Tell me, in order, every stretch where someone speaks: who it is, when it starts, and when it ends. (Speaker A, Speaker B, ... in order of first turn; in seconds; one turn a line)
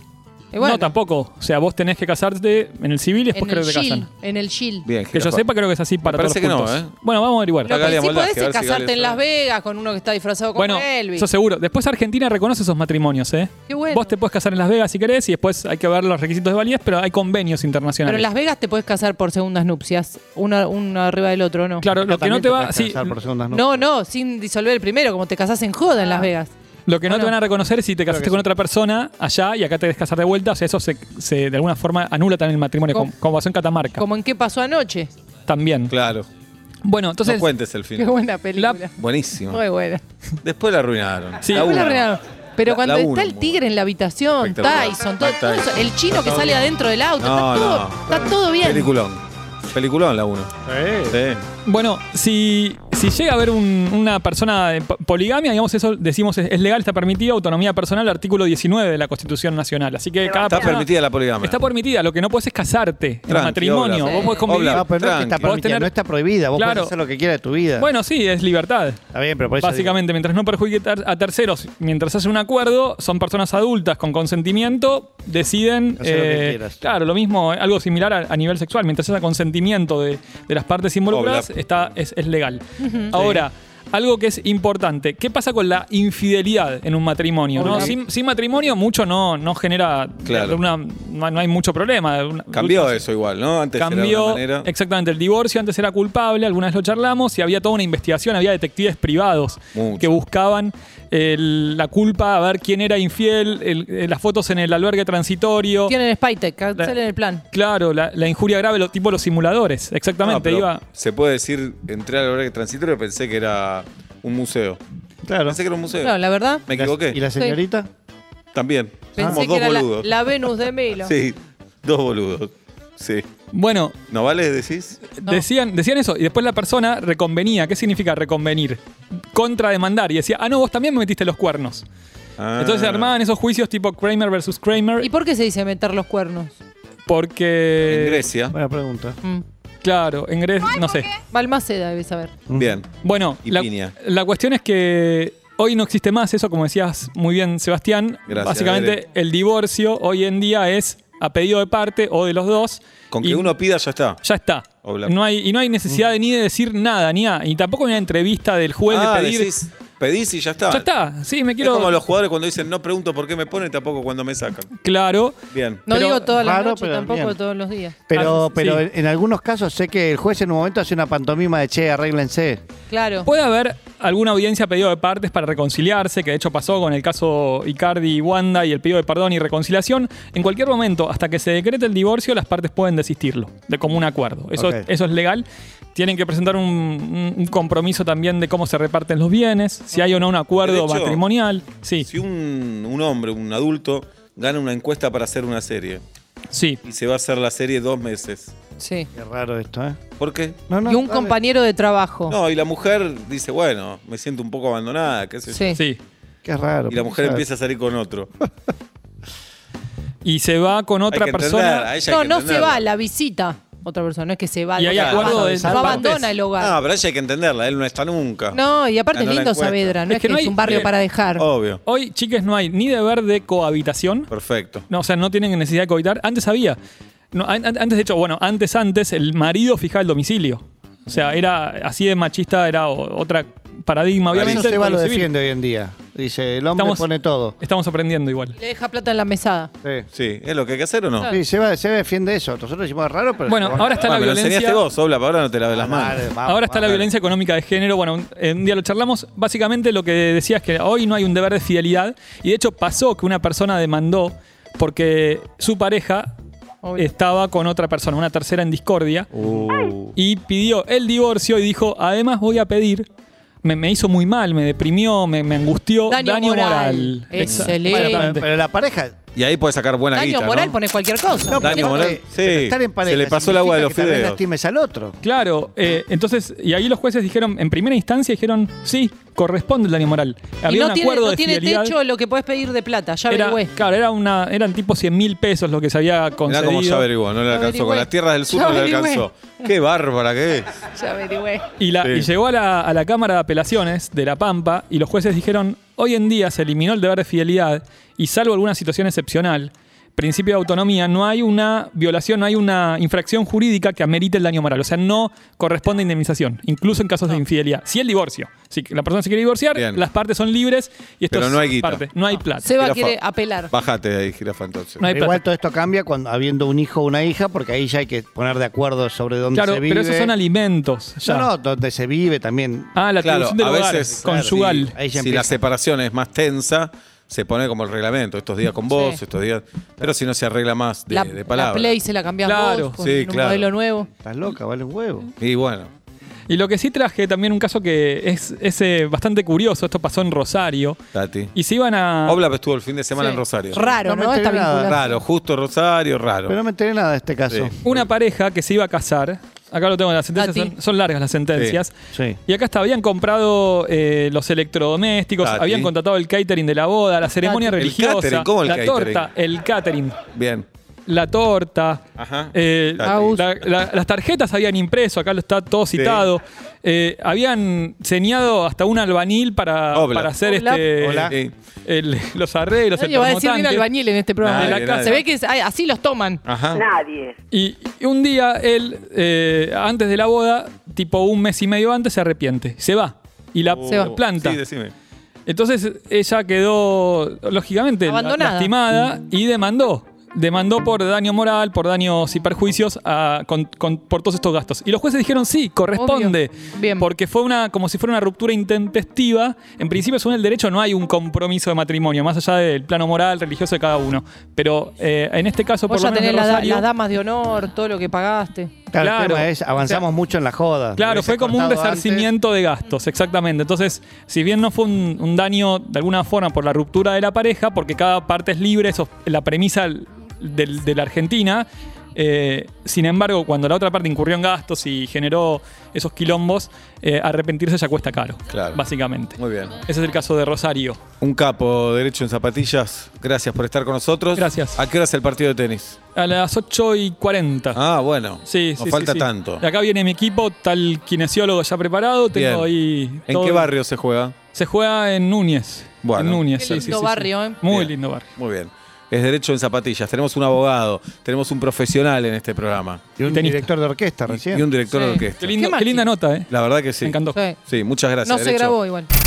Speaker A: 0.5-0.9
Speaker B: 0.6-4.1
Speaker A: 3.3-4.9
Speaker C: 4.8-5.4
Speaker B: 5.1-7.9
Speaker C: 6.0-6.9
Speaker A: 7.7-11.3
Speaker C: 7.7-9.2
Speaker B: 10.6-18.3
Speaker A: 13.7-14.1
Speaker A: 18.1-21.9
Speaker B: 21.8-23.1
Speaker D: 22.0-23.9
Speaker A: 23.5-26.5
Speaker B: 26.9-34.1
Speaker A: 27.1-27.4
Speaker D: 28.1-28.5
Speaker A: 34.0-35.1
Speaker B: 35.5-35.9
Speaker C: 35.9-36.3
Speaker B: 36.8-37.5
Speaker C: 37.3-38.1
Speaker A: 38.0-40.0
Speaker B: 38.5-38.8
Speaker C: 39.0-39.6
Speaker C: 40.4-42.1
Speaker A: 41.5-48.9
Speaker C: 42.6-43.6
Speaker C: 44.4-45.7
Speaker D: 46.1-46.6
Speaker C: 47.2-50.5
Speaker D: 50.6-51.2
Speaker C: 51.1-51.4
Speaker B: 51.7-65.9
Speaker C: 60.5-61.6
Speaker C: 63.3-65.5
Speaker A: 64.0-64.6
Speaker D: 64.7-67.9
Speaker B: 66.5-67.0
Speaker B: 67.8-69.0
Speaker D: 69.1-70.0
Speaker B: 69.6-93.0
Speaker D: 76.0-76.8
Speaker C: 81.1-81.5
Speaker A: 82.8-83.1
Speaker C: 83.1-83.5
Speaker A: 87.6-88.0
Speaker C: 90.2-90.6
Speaker C: 92.5-94.7
Speaker B: 93.8-105.9
Speaker C: 99.8-100.2
Speaker A: 105.9-107.4
Speaker B: 107.5-110.8
Speaker C: 110.2-114.8
Speaker D: 115.3-115.6
Speaker C: 115.5-116.2
Speaker A: 116.0-116.6
Speaker C: 116.7-117.2
Speaker D: 116.8-117.9
Speaker A: 117.3-117.6
Speaker C: 118.5-120.1
Speaker A: 119.2-121.1
Speaker D: 119.2-119.4
Speaker C: 121.1-123.3
Speaker B: 123.5-124.0
Speaker C: 124.1-125.1
Speaker B: 125.1-131.9
Speaker C: 132.4-133.2
Speaker B: 132.6-135.1
Speaker A: 135.0-136.6
Speaker B: 137.1-138.2
Speaker C: 137.9-138.6
Speaker D: 138.5-139.2
Speaker B: 139.8-141.1
Speaker A: 141.3-142.4
Speaker C: 142.6-143.9
Speaker B: 143.0-153.5
Speaker C: 148.3-149.0
Speaker C: 153.1-154.2
Speaker B: 154.2-159.5
Speaker C: 154.8-155.1
Speaker C: 158.9-160.9
Speaker B: 160.7-162.0
Speaker C: 161.6-164.7
Speaker B: 164.8-165.4
Speaker C: 165.5-165.8
Speaker A: 165.9-168.0
Speaker B: 165.9-166.3
Speaker D: 166.3-167.4
Speaker D: 168.1-172.6
Speaker B: 168.1-168.8
Speaker A: 172.9-173.3
Speaker B: 173.2-192.1
Speaker D: 184.6-184.9
Speaker C: 190.6-191.2
Speaker C: 192.1-196.0
Speaker B: 196.5-196.8
Speaker C: 196.8-198.6
Speaker A: 198.8-199.1
Speaker D: 199.1-200.0
Speaker C: 200.2-200.7
Speaker D: 200.7-201.4
Speaker A: 200.8-202.4
Speaker C: 202.3-205.8
Speaker A: 205.5-205.8
Speaker B: 205.7-206.0
Speaker D: 206.4-207.4
Speaker C: 206.9-208.3
Speaker B: 210.2-211.9
Speaker C: 211.1-212.9
Speaker A: 212.0-216.8
Speaker B: 214.8-216.3
Speaker C: 214.9-215.4
Speaker D: 215.1-216.1
Speaker C: 216.6-218.6
Speaker A: 218.5-221.5
Speaker C: 219.1-220.0
Speaker B: 220.1-220.9
Speaker C: 220.6-221.8
Speaker B: 221.9-224.3
Speaker C: 224.3-224.9
Speaker B: 224.9-226.8
Speaker B: 227.3-235.3
Speaker D: 234.3-237.6
Speaker C: 234.3-234.7
Speaker B: 236.8-238.6
Speaker A: 238.6-239.7
Speaker C: 240.1-241.3
Speaker D: 241.3-244.0
Speaker B: 243.5-244.8
Speaker C: 244.0-246.3
Speaker D: 245.7-247.1
Speaker B: 246.4-256.3
Speaker A: 256.8-257.1
Speaker B: 257.0-259.3
Speaker C: 259.4-260.1
Speaker B: 260.2-263.1
Speaker B: 263.6-268.4
Speaker A: 266.1-268.2
Speaker C: 267.4-267.8
Speaker D: 267.9-269.1
Speaker C: 269.4-270.8
Speaker A: 270.1-272.2
Speaker D: 271.4-275.2
Speaker C: 271.6-274.4
Speaker B: 275.2-281.9
Speaker A: 280.7-283.7
Speaker B: 283.3-287.1
Speaker C: 286.5-290.8
Speaker A: 287.5-289.3
Speaker A: 290.8-291.7
Speaker B: 291.8-312.7
Speaker C: 292.0-292.3
Speaker C: 309.7-310.0
Speaker C: 311.3-312.1
Speaker A: 312.5-313.7
Speaker C: 312.8-313.2
Speaker C: 313.7-315.1
Speaker B: 315.0-315.4
Speaker D: 315.1-320.3
Speaker B: 319.5-321.5
Speaker D: 321.2-323.0
Speaker B: 322.9-325.0
Speaker C: 323.2-332.0
Speaker D: 324.1-325.6
Speaker A: 328.9-329.2
Speaker A: 331.1-334.1
Speaker B: 332.4-333.0
Speaker C: 333.0-333.7
Speaker D: 334.2-335.3
Speaker C: 335.4-335.9
Speaker B: 336.5-341.0
Speaker C: 341.1-341.5
Speaker B: 341.5-342.4
Speaker C: 342.3-343.9
Speaker A: 343.2-345.2
Speaker D: 343.8-345.0
Speaker C: 344.8-346.6
Speaker D: 346.5-347.8
Speaker C: 347.5-347.8
Speaker B: 347.8-351.9
Speaker A: 350.4-350.7
Speaker D: 352.1-352.4
Speaker B: 352.5-360.2
Speaker C: 355.4-355.9
Speaker A: 357.4-357.8
Speaker C: 357.8-359.3
Speaker C: 360.3-360.7
Speaker B: 361.1-373.9
Speaker C: 362.2-363.4
Speaker A: 363.0-363.4
Speaker C: 365.9-366.3
Speaker C: 369.9-370.5
Speaker A: 370.4-370.9
Speaker D: 371.0-371.4
Speaker A: 373.0-376.4
Speaker C: 374.4-375.2
Speaker B: 374.4-375.2
Speaker C: 376.5-377.0
Speaker B: 377.5-384.6
Speaker C: 383.7-384.9
Speaker A: 383.9-384.2
Speaker B: 385.5-406.9
Speaker A: 388.1-388.7
Speaker A: 396.0-397.1
Speaker A: 405.9-408.7
Speaker D: 408.9-412.3
Speaker B: 409.0-410.0
Speaker B: 411.0-431.0
Speaker C: 428.5-428.8
Speaker C: 429.4-429.7
Speaker C: 431.2-436.0
Speaker B: 434.4-434.8
Speaker B: 436.2-437.8
Speaker C: 437.7-439.6
Speaker B: 438.4-443.7
Speaker C: 442.4-442.7
Speaker C: 443.3-444.4
Speaker B: 444.5-448.3
Speaker C: 446.0-447.0
Speaker A: 446.6-447.6
Speaker C: 447.7-453.1
Speaker D: 453.2-454.7
Speaker B: 453.2-453.7
Speaker C: 454.3-455.6
Speaker A: 454.9-456.1
Speaker B: 455.4-456.5
Speaker C: 456.5-458.8
Speaker B: 457.0-457.4
Speaker A: 457.3-457.6
Speaker A: 458.2-459.1